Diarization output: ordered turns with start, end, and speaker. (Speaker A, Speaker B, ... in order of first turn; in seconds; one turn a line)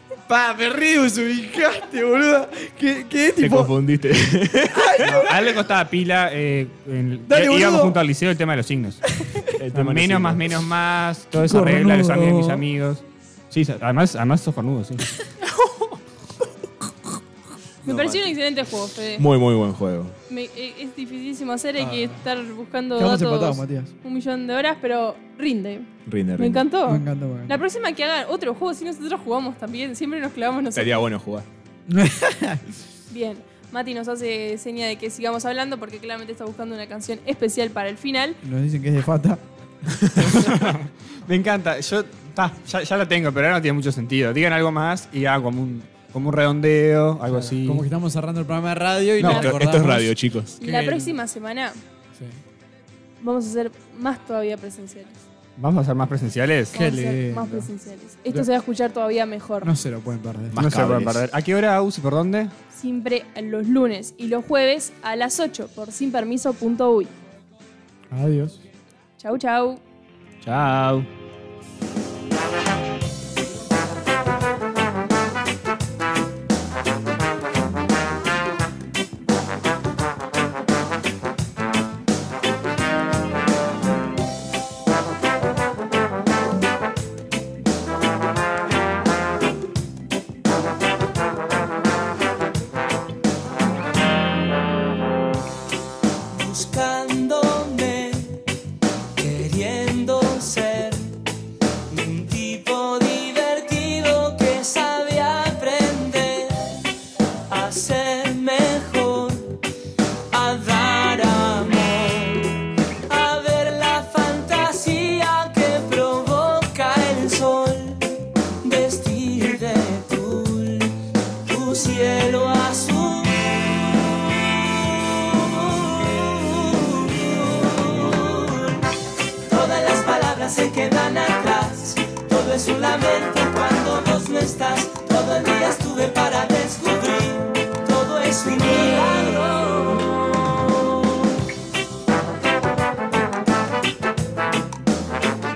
Speaker A: 0.3-3.7
Speaker B: 3.4-5.1
Speaker A: 4.7-5.4
Speaker C: 5.0-9.0
Speaker A: 7.3-8.0
Speaker A: 9.2-9.5
Speaker B: 9.6-10.7
Speaker C: 9.7-15.1
Speaker A: 11.3-12.6
Speaker B: 17.8-18.4
Speaker D: 17.9-19.2
Speaker B: 19.2-20.1
Speaker D: 20.3-31.0
Speaker A: 21.8-22.2
Speaker A: 22.9-23.9
Speaker B: 26.1-26.7
Speaker A: 26.9-27.6
Speaker B: 30.7-31.4
Speaker A: 31.9-32.6
Speaker D: 33.1-38.4
Speaker A: 38.4-39.4
Speaker B: 40.0-40.3
Speaker C: 40.2-47.9
Speaker A: 47.3-51.1
Speaker B: 49.2-50.6
Speaker D: 49.2-49.5
Speaker D: 50.6-51.8
Speaker D: 53.2-55.1
Speaker C: 55.6-56.9
Speaker A: 56.7-57.7
Speaker D: 56.7-59.7
Speaker A: 59.6-60.6
Speaker B: 60.5-61.2
Speaker C: 60.6-62.5
Speaker D: 62.7-67.1
Speaker A: 68.1-68.6
Speaker D: 69.2-69.8
Speaker C: 70.4-71.1
Speaker E: 96.3-98.4
Speaker E: 99.2-101.2
Speaker E: 101.9-106.8
Speaker E: 107.5-109.6
Speaker E: 110.3-128.8
Speaker E: 129.4-141.3